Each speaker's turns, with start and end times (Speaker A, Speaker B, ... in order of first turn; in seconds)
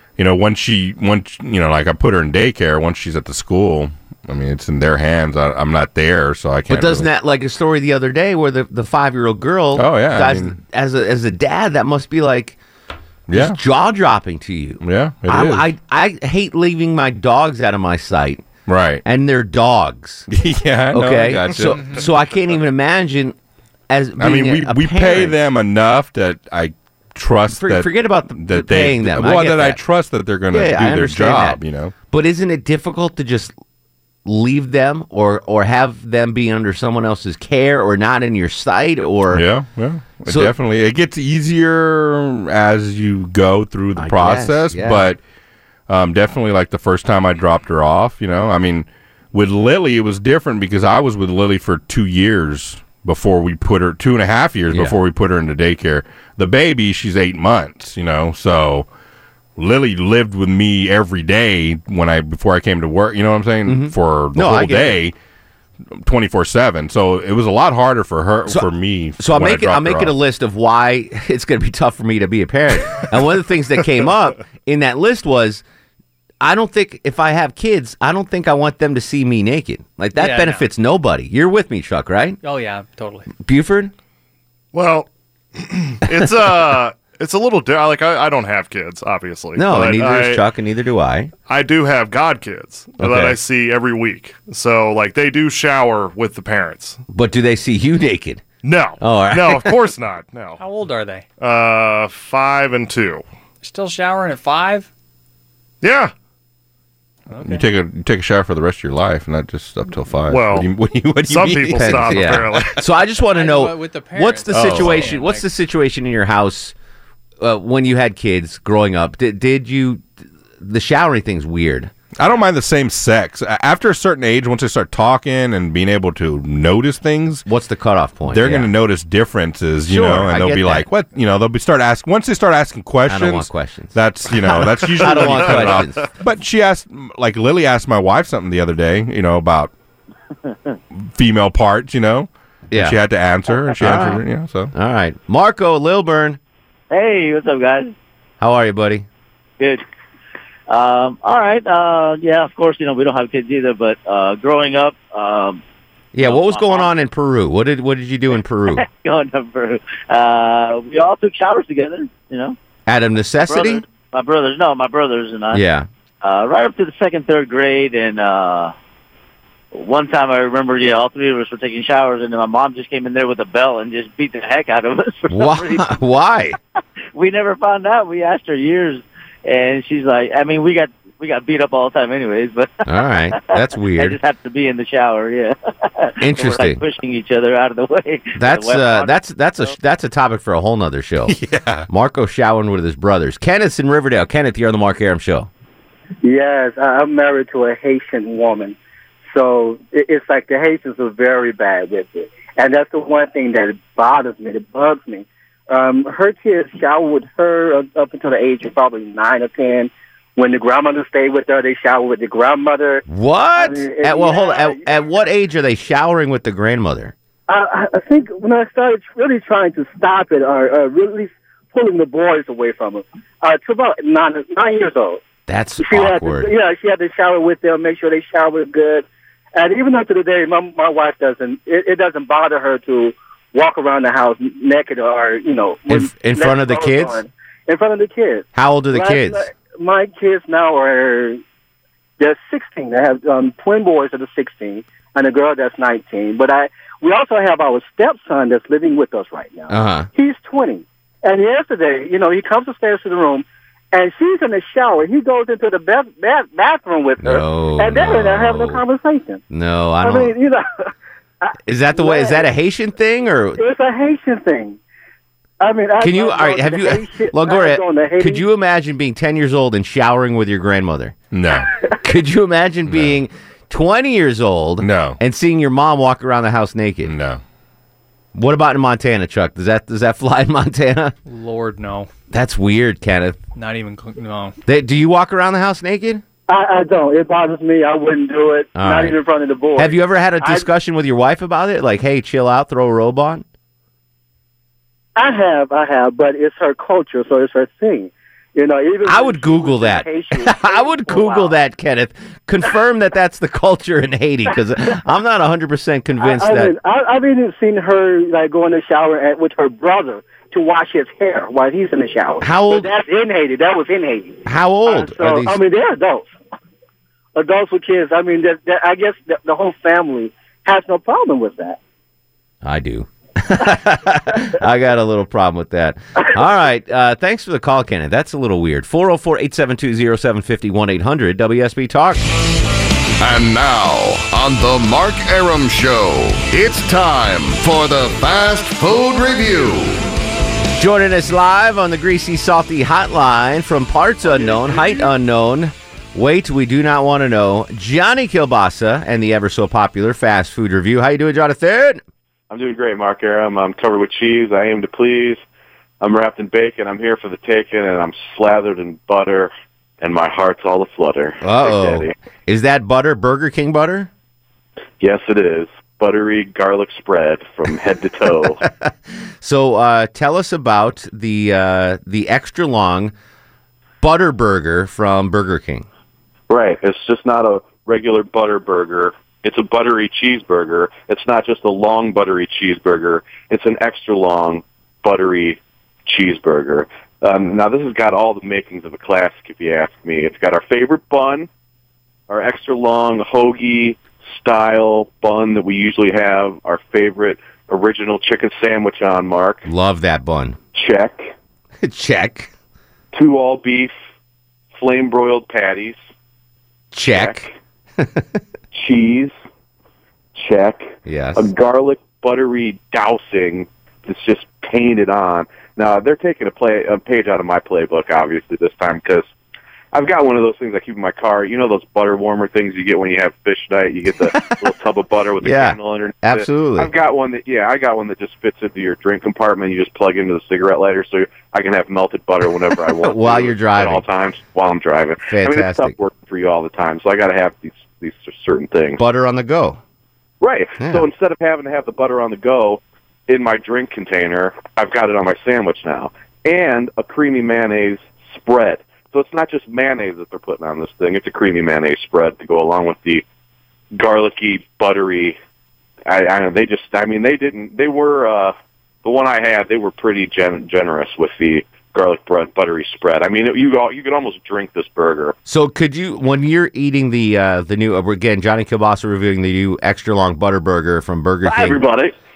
Speaker A: 0.2-7.1, 9.8-10.5, 13.3-13.6, 14.8-15.7, 18.7-19.0, 20.3-22.0, 24.2-31.9, 39.3-45.2, 45.9-58.9, 59.6-65.1, 66.0-70.1, 107.4-112.5, 122.2-127.4, 128.3-139.7, 140.9-144.7, 191.3-191.9, 271.3-271.7, 272.9-273.2, 274.8-275.2, 277.0-277.4
Speaker B: 6.7-12.6, 13.3-18.5, 19.0-20.3, 20.9-23.4, 23.9-25.4, 27.5-29.8, 30.5-33.5, 34.2-39.4, 40.3-40.5, 44.0-45.1, 63.7-65.0, 68.5-75.6, 76.4-82.4, 83.4-83.9, 89.5-91.3, 93.0-93.4, 97.1-98.5, 99.0-99.7, 111.7-116.7, 117.4-120.1, 120.6-121.9, 127.5-128.7, 129.9-130.9, 133.1-136.1, 142.7-143.0, 143.8-144.2, 144.7-146.4, 148.4-149.1, 156.1-158.8, 162.9-163.8, 165.5-165.9, 175.3-176.6, 182.8-184.2, 186.2-186.8, 188.3-191.4, 191.9-195.5, 213.1-217.1, 225.5-226.5, 235.9-237.2, 238.5-239.4, 249.7-250.1, 257.2-258.8, 259.5-260.3, 261.6-263.6, 266.0-271.2, 272.0-277.1, 278.3-281.1, 282.3-283.4, 284.6-286.2, 288.8-289.1, 289.8-293.4, 299.0-306.7, 312.4-312.9, 314.4-315.6, 322.6-332.2, 340.8-352.0, 361.4-364.1, 368.6-373.1, 374.0-375.9, 399.6-400.6, 401.8-402.5, 406.9-408.4, 411.0-411.5, 425.4-426.9, 432.9-434.0, 435.3-435.9, 439.0-439.8, 440.8-441.1, 465.4-471.8
Speaker C: 21.7-22.0, 80.2-80.6, 82.4-83.3, 100.6-101.2, 103.6-104.9, 107.3-107.6, 113.3-115.4, 281.2-282.1, 283.6-284.6
Speaker D: 84.7-90.4, 91.5-97.0, 98.6-100.6, 101.4-103.2, 105.8-106.1, 110.3-110.7, 111.2-112.8, 114.5-115.1, 134.5-135.8
Speaker E: 146.9-147.9, 150.7-155.6, 156.2-157.0, 158.7-162.6, 163.4-165.6, 166.2-168.7, 169.7-175.8, 177.1-189.7
Speaker F: 196.2-198.8, 199.3-214.8, 217.5-225.2, 225.8-241.4, 242.2-259.4, 260.0-260.9, 261.4-262.5, 263.6-264.8, 265.6-268.4, 286.5-290.7, 295.1-301.6, 306.2-316.3, 317.4-321.8
Speaker G: 333.2-340.1
Speaker H: 352.5-355.4, 356.0-362.1, 365.0-368.6, 376.5-391.5, 392.3-399.6, 400.7-401.3, 403.1-403.9, 404.7-406.0, 407.1-407.5, 408.7-409.3, 410.3-419.2, 419.9-439.0, 440.4-453.2, 453.9-455.4, 456.1-465.4, 471.4-472.1